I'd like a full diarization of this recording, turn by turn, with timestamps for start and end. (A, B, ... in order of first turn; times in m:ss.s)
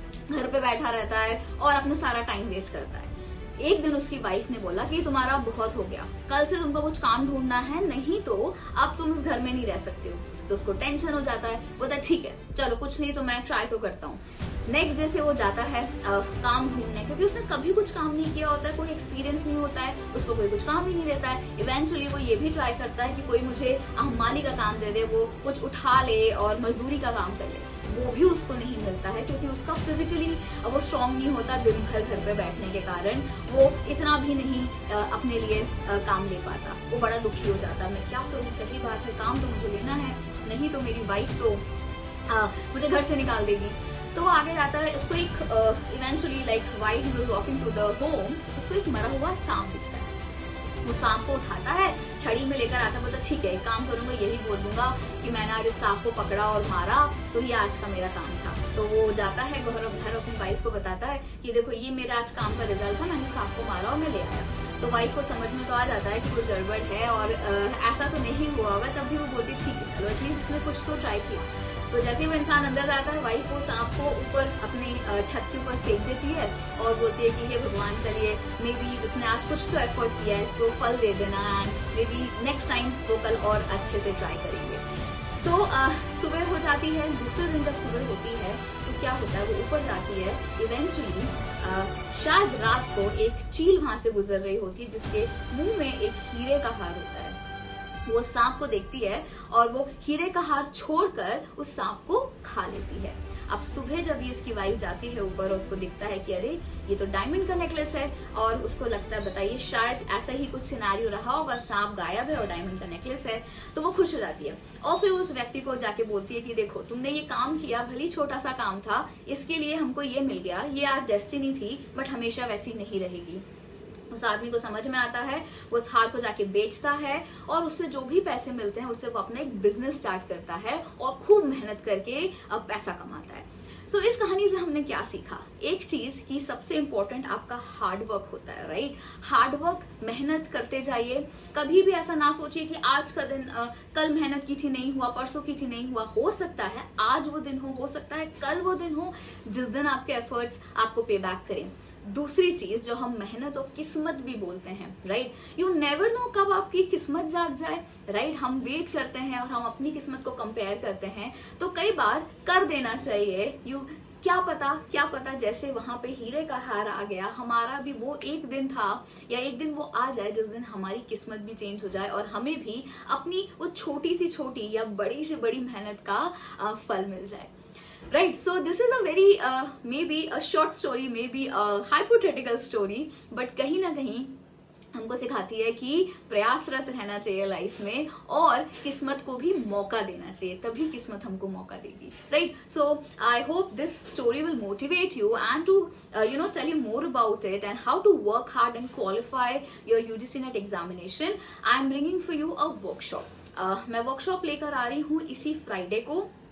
0:00.3-0:41.6 A
0:42.3-0:50.1 A
0:50.8-1:24.8 A
1:25.3-1:37.4 A
1:38.1-2:03.4 A
2:04.1-2:57.5 A
2:58.1-3:04.3 A
3:04.9-3:26.3 A